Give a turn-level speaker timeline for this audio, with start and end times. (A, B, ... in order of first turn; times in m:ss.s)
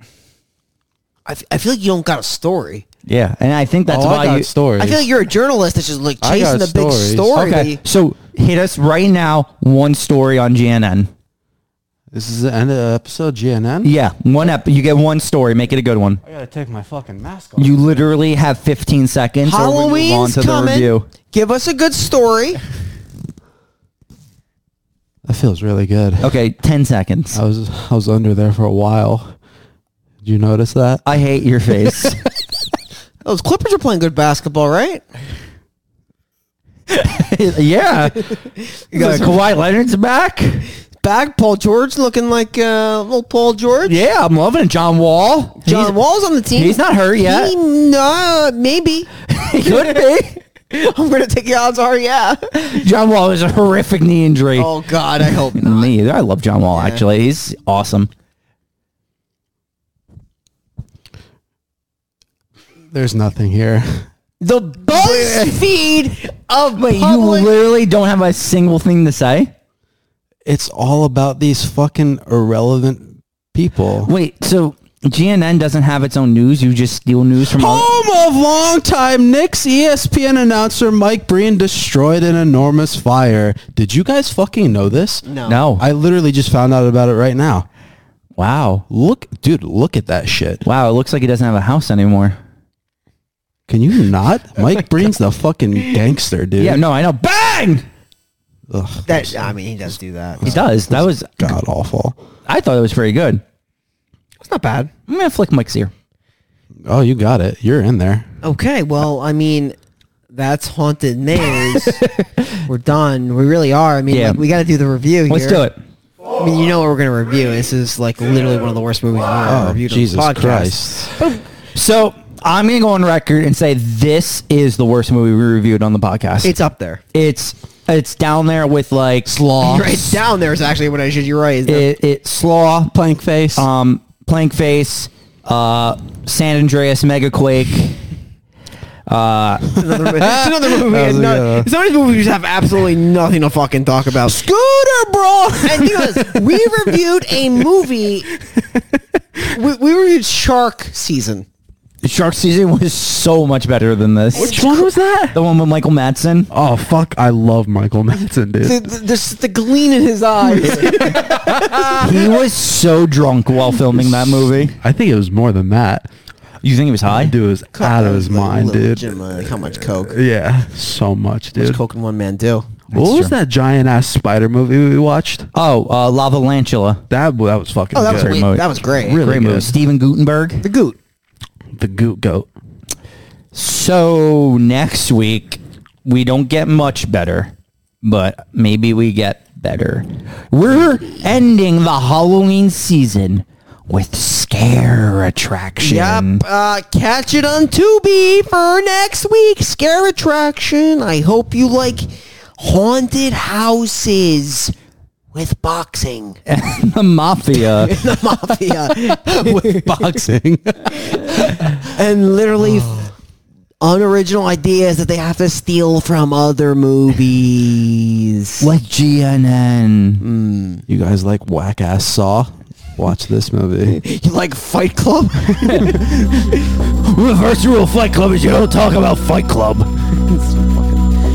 0:01.2-0:02.8 A
0:03.0-0:04.5 B
0:03.9-0:05.1 C
0:04.8-0:07.8 A
0:06.2-0:07.6 C
0:07.4-0:11.1 B
0:12.1-0:13.9 C
0:13.8-0:16.2 B
0:16.2-0:17.8 C
0:17.6-0:21.0 B
0:19.4-0:22.6 A
0:25.2-0:26.3 C
0:26.2-0:27.4 B
0:27.3-0:29.3 C
0:30.2-0:31.0 C
0:31.0-0:32.2 B
0:33.2-0:35.0 A
0:36.9-0:38.4 B
0:38.6-0:39.5 A
0:38.9-0:40.7 B
0:41.0-0:44.0 A
0:43.8-0:46.0 B
0:45.6-0:52.9 A
0:46.5-0:47.5 B
0:49.3-0:50.4 B
0:52.7-0:58.1 B
0:54.5-0:55.9 A
0:56.7-0:57.0 A
1:02.9-1:04.0 C
1:04.4-1:07.5 A
1:04.8-1:05.6 B
1:06.8-1:09.5 B
1:10.4-1:14.1 C
1:14.0-1:17.9 B
1:17.5-1:25.2 C
1:25.2-1:25.6 A
1:25.4-1:25.8 B
1:25.8-1:27.7 C
1:28.4-1:28.8 B
1:28.9-1:30.6 C
1:30.6-1:32.4 B
1:33.7-1:36.8 C
1:36.6-1:37.8 B
1:38.7-1:39.6 C
1:39.0-1:40.6 A
1:40.4-1:42.2 C
1:40.4-1:41.3 B
1:42.5-1:43.4 B
1:44.4-1:44.9 A
1:45.1-1:45.9 B
1:46.8-1:48.3 C
1:48.4-1:49.8 A
1:50.3-1:52.0 A
1:51.7-1:52.5 B
1:52.6-1:55.7 A
1:54.1-1:54.4 B
1:55.3-1:55.8 B
1:56.4-2:01.4 A
1:59.4-2:01.1 C
2:01.7-2:06.5 B
2:06.4-2:07.0 A
2:07.1-2:09.3 B
2:09.2-2:10.2 C
2:09.6-2:11.9 A
2:11.6-2:12.9 B
2:12.9-2:13.7 C
2:13.6-2:18.0 B
2:19.1-2:19.7 B
2:19.7-2:24.5 A
2:20.2-2:21.7 C
2:24.4-2:26.6 C
2:25.5-2:28.3 A
2:29.5-2:31.5 A
2:32.0-2:34.6 B
2:34.3-2:34.9 A
2:34.3-2:35.4 C
2:35.3-2:36.5 B
2:36.5-2:38.8 C
2:38.6-2:42.3 A
2:40.6-2:42.1 C
2:42.0-2:44.8 B
2:43.8-2:46.1 C
2:46.6-2:47.3 B
2:47.1-2:51.8 C
2:47.7-2:50.2 A
2:51.5-2:52.7 A
2:52.9-2:53.4 B
2:52.9-2:55.5 C
2:55.5-2:57.0 B
2:57.1-2:58.4 C
2:57.9-2:59.2 A
2:58.0-3:00.6 B
2:59.0-2:59.8 C
3:00.6-3:01.0 A
3:01.7-3:02.5 C
3:03.5-3:16.4 B
3:15.8-3:24.7 A
3:25.3-3:26.4 A
3:26.5-3:28.0 B
3:27.6-3:30.2 A
3:28.9-3:31.8 C
3:31.1-3:33.1 A
3:33.8-3:38.7 A
3:38.6-3:40.2 B
3:40.2-3:40.8 A
3:40.9-3:44.0 C
3:43.9-3:46.4 A
3:45.6-3:46.1 C
3:46.3-3:49.9 B
3:50.1-3:51.1 A